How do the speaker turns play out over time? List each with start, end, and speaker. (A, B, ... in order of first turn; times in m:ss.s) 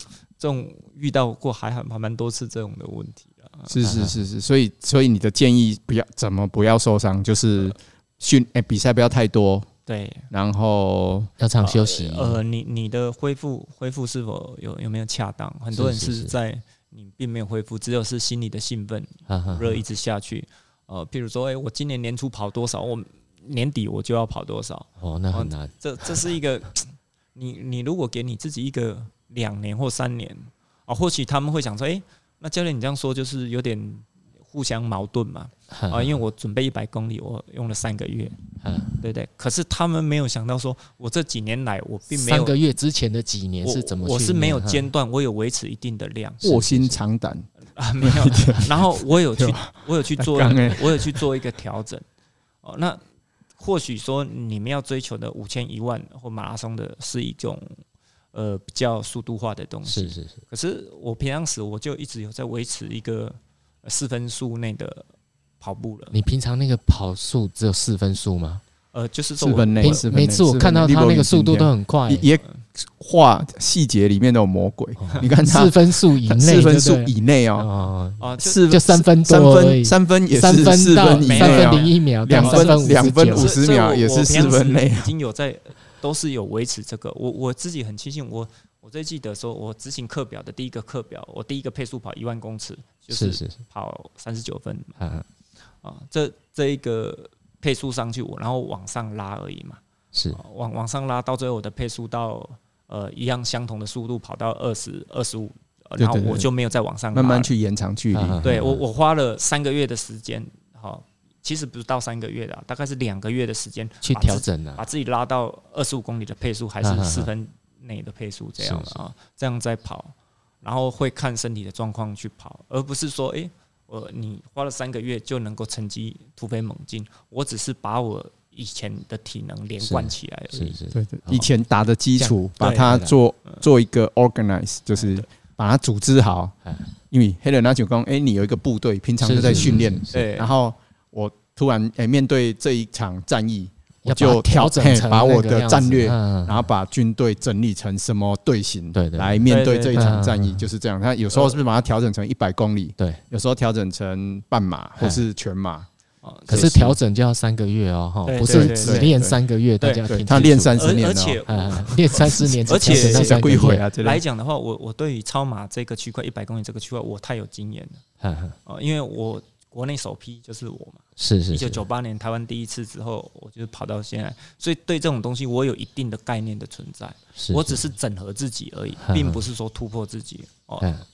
0:00.4-0:03.8 A
0:03.7-0:09.7 B
0:03.8-0:04.2 C
0:09.9-0:10.3 A
0:10.3-0:11.3 B
0:11.4-0:12.4 C
0:11.6-0:38.4 A
0:15.7-0:16.3 C
0:19.3-0:19.8 C
0:25.0-0:25.7 C
0:35.7-0:36.2 C
0:38.6-0:38.9 C
0:39.0-0:42.6 A
0:42.1-0:44.9 C
0:43.6-0:46.4 A
0:46.4-0:46.9 C
0:46.4-0:47.5 B
0:47.8-0:52.0 A
0:48.0-0:51.3 B
0:52.6-0:53.0 A
0:53.6-0:57.8 A
0:58.3-1:05.1 A
0:59.9-1:00.4 C
1:05.6-1:06.2 A
1:06.1-1:08.6 C
1:08.9-1:10.0 A
1:09.4-1:17.7 B
1:09.8-1:12.3 C
1:15.0-1:23.5 C
1:18.2-1:18.6 A
1:18.4-1:25.1 B
1:21.2-1:35.0 A
1:33.1-1:33.6 C
1:35.0-1:35.2 C
1:35.8-1:39.8 A
1:40.1-1:40.4 C
1:40.3-1:47.5 A
1:46.0-1:46.5 B
1:47.1-1:48.4 B
1:48.1-1:48.8 C
1:48.4-2:10.8 A
1:54.0-1:54.8 C
1:56.8-1:57.3 C
1:58.6-1:59.0 C
2:09.8-2:11.5 C
2:10.9-2:16.6 B
2:12.2-2:13.6 A
2:15.0-2:15.3 A
2:17.1-2:35.9 B
2:19.2-2:20.2 C
2:19.4-2:20.5 A
2:24.0-2:26.7 C
2:28.9-2:30.6 C
2:29.5-2:30.1 A
2:31.3-2:31.6 A
2:36.2-2:36.9 A
2:36.5-2:40.9 C
2:36.5-2:37.0 B
2:38.3-2:39.1 A
2:38.4-2:39.4 B
2:39.8-2:40.1 A
2:40.1-2:41.4 B
2:40.7-2:48.0 A
2:41.5-2:43.8 C
2:42.1-2:44.2 B
2:48.2-2:48.6 C
2:48.7-3:00.9 A
2:51.2-2:51.8 C
2:57.4-2:57.8 C
2:59.0-2:59.4 C
3:00.8-3:01.0 C